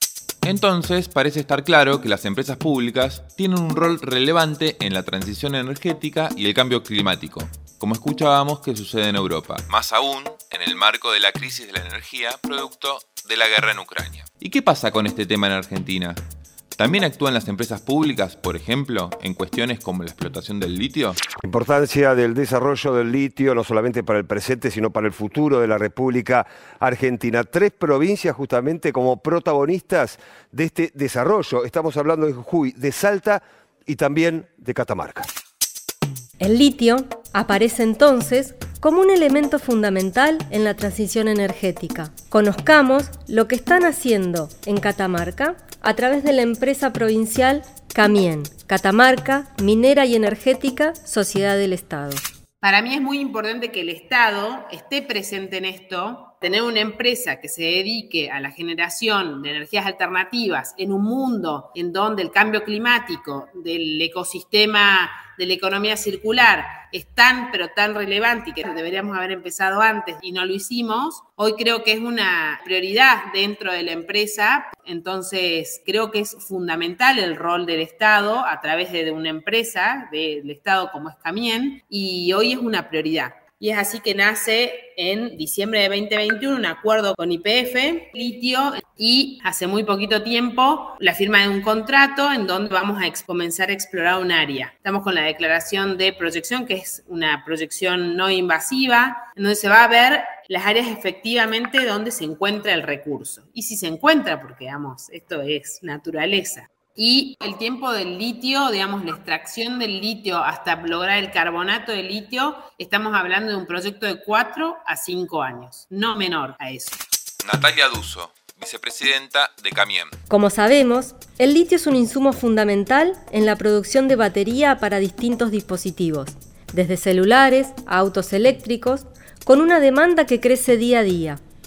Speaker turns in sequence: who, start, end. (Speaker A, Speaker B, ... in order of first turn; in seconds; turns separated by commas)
Speaker A: 0.4-16.2, Speaker A: 16.8-21.2, Speaker B: 21.4-35.3, Speaker C: 36.4-52.2, Speaker D: 52.6-117.0, Speaker A: 117.4-120.1, Speaker C: 120.3-131.4